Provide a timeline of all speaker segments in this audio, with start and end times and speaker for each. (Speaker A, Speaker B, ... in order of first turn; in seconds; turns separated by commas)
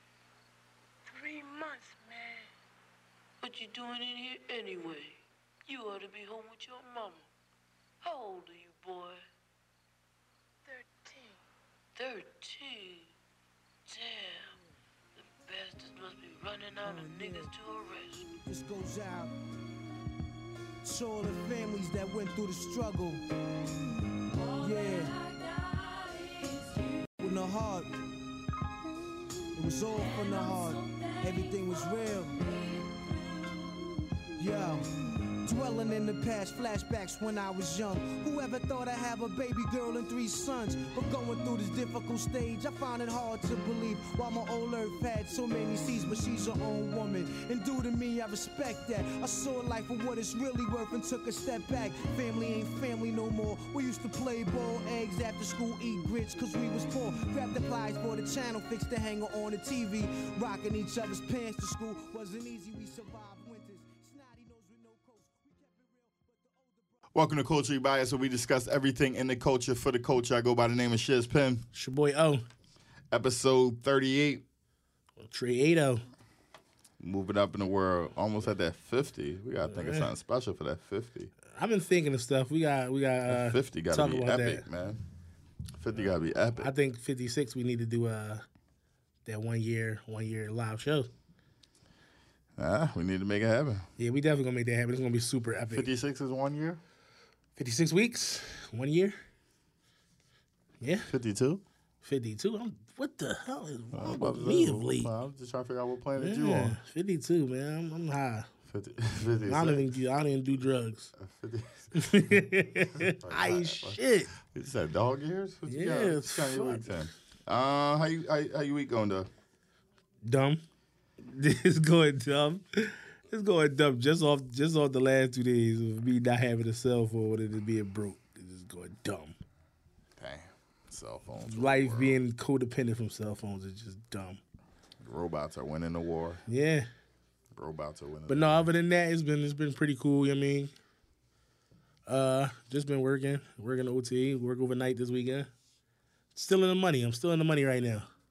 Speaker A: 1.1-2.5, Speaker A: 3.4-5.2, Speaker A: 5.7-7.2, Speaker A: 8.0-9.2, Speaker A: 10.7-11.3, Speaker A: 11.9-13.1, Speaker A: 13.9-14.6, Speaker A: 15.1-18.3, Speaker B: 17.0-17.5, Speaker B: 18.4-19.3, Speaker B: 20.8-23.2, Speaker B: 24.5-25.2, Speaker A: 24.6-27.0, Speaker B: 27.2-27.9, Speaker B: 29.5-32.4, Speaker A: 30.0-33.9, Speaker B: 34.4-34.9, Speaker B: 35.4-67.0, Speaker C: 67.1-71.6, Speaker D: 71.7-72.4, Speaker C: 73.1-74.4, Speaker D: 75.2-76.0, Speaker C: 77.0-81.3, Speaker D: 79.8-80.0, Speaker D: 81.5-84.6, Speaker C: 83.3-85.0, Speaker C: 85.8-86.7, Speaker D: 86.6-88.4, Speaker D: 89.2-91.1, Speaker C: 92.6-93.9, Speaker D: 94.0-95.9, Speaker C: 95.7-96.8, Speaker D: 97.6-99.1, Speaker D: 100.8-101.1, Speaker C: 101.1-101.6, Speaker D: 102.0-105.1, Speaker C: 103.9-106.8, Speaker D: 106.2-108.5, Speaker C: 108.7-109.9, Speaker D: 109.5-111.1, Speaker C: 111.2-119.3, Speaker D: 111.9-114.3, Speaker D: 115.7-116.8, Speaker D: 120.2-120.6, Speaker D: 121.2-129.4, Speaker C: 130.2-132.2, Speaker D: 131.4-134.4, Speaker C: 135.0-136.4, Speaker D: 136.5-136.9, Speaker C: 137.5-138.7, Speaker D: 138.3-140.7, Speaker D: 142.1-145.5, Speaker D: 146.3-148.1